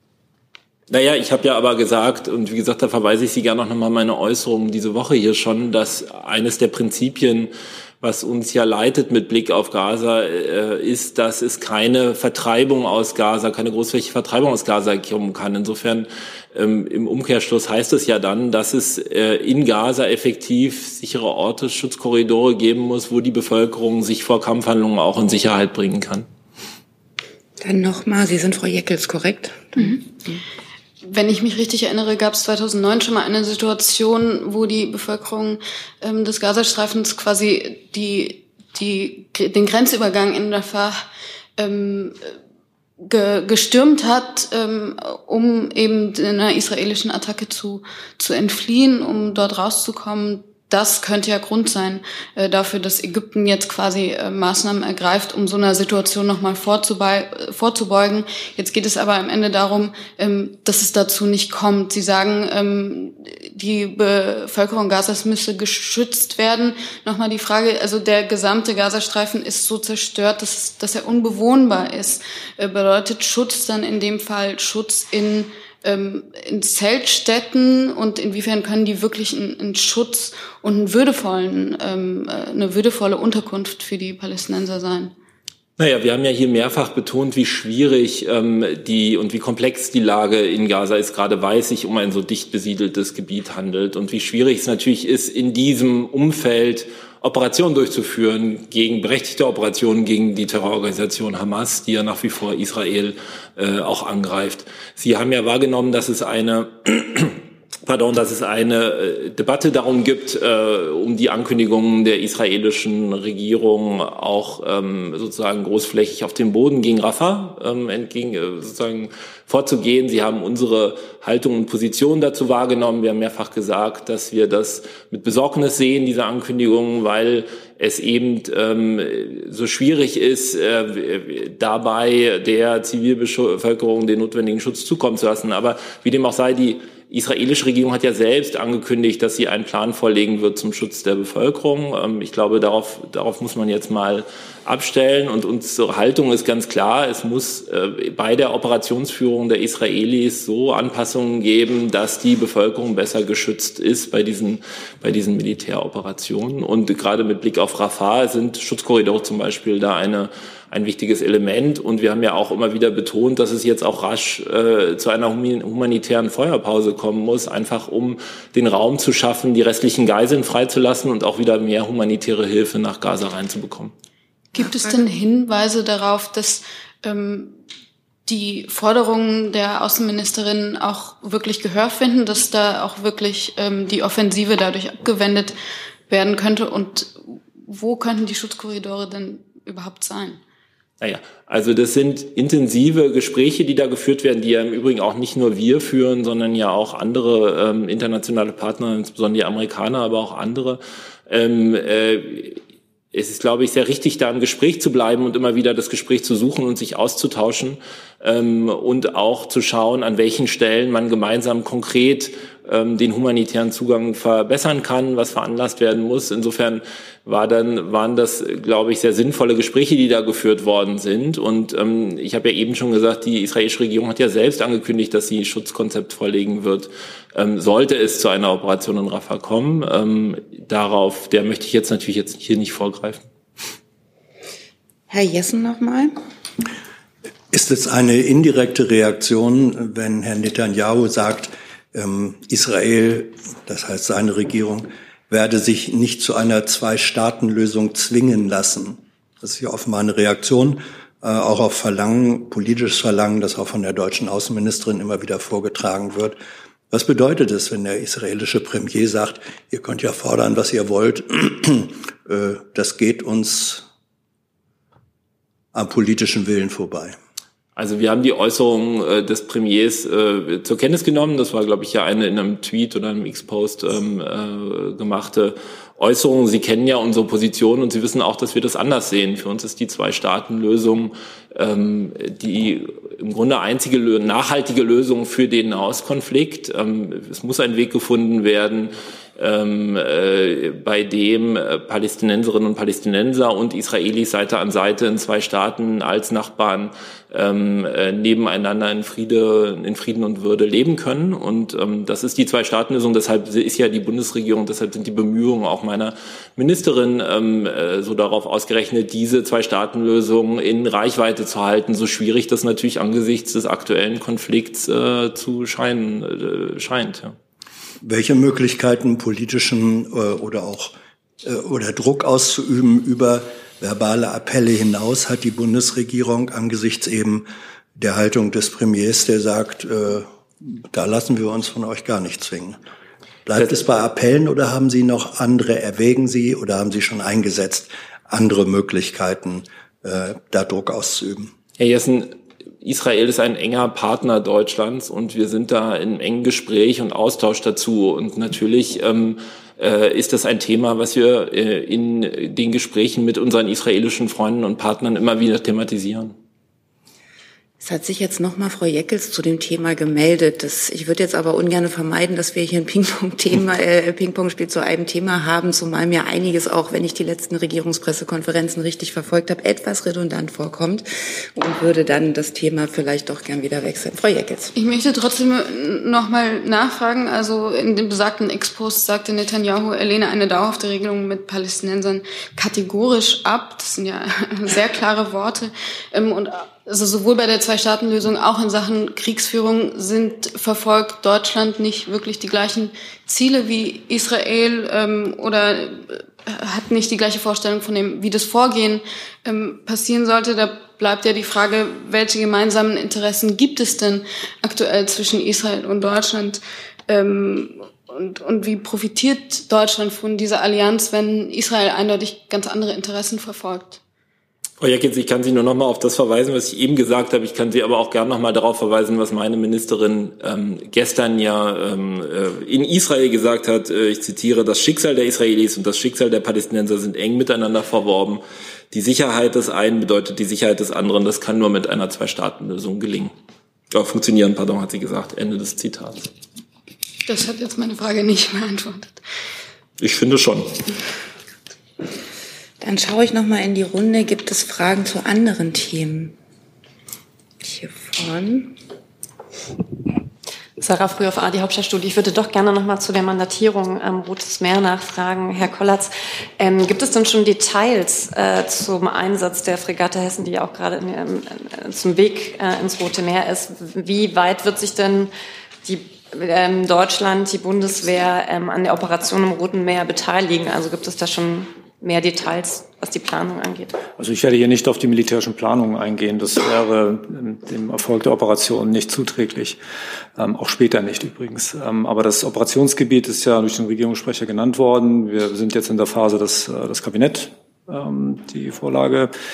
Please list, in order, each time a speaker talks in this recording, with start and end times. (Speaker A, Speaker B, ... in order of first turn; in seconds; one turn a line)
Speaker A: 0.9-26.2
Speaker B: 27.6-30.4
Speaker C: 31.1-41.1
Speaker C: 41.6-42.2
Speaker C: 43.0-85.1
Speaker A: 85.8-173.9
Speaker C: 174.5-177.6
Speaker B: 174.6-175.0
Speaker C: 178.2-185.5
Speaker C: 186.1-190.4
Speaker A: 191.0-202.6
Speaker A: 203.1-233.2
Speaker B: 235.1-236.1
Speaker D: 237.5-256.4
Speaker D: 256.9-263.8
Speaker D: 265.7-267.2
Speaker A: 267.8-317.4
Speaker D: 318.0-332.8
Speaker D: 333.4-341.5
Speaker A: 341.8-356.3
Speaker B: 357.8-374.7
Speaker C: 374.7-414.0
Speaker A: 414.8-433.3
Speaker A: 433.9-436.3
Speaker C: 437.2-439.2
Speaker A: 440.0-440.7
Speaker B: 442.8-446.3
Speaker B: 447.6-448.8
Speaker E: 450.8-465.3
Speaker E: 465.8-473.9
Speaker F: 474.2-479.8
Speaker F: 480.4-489.3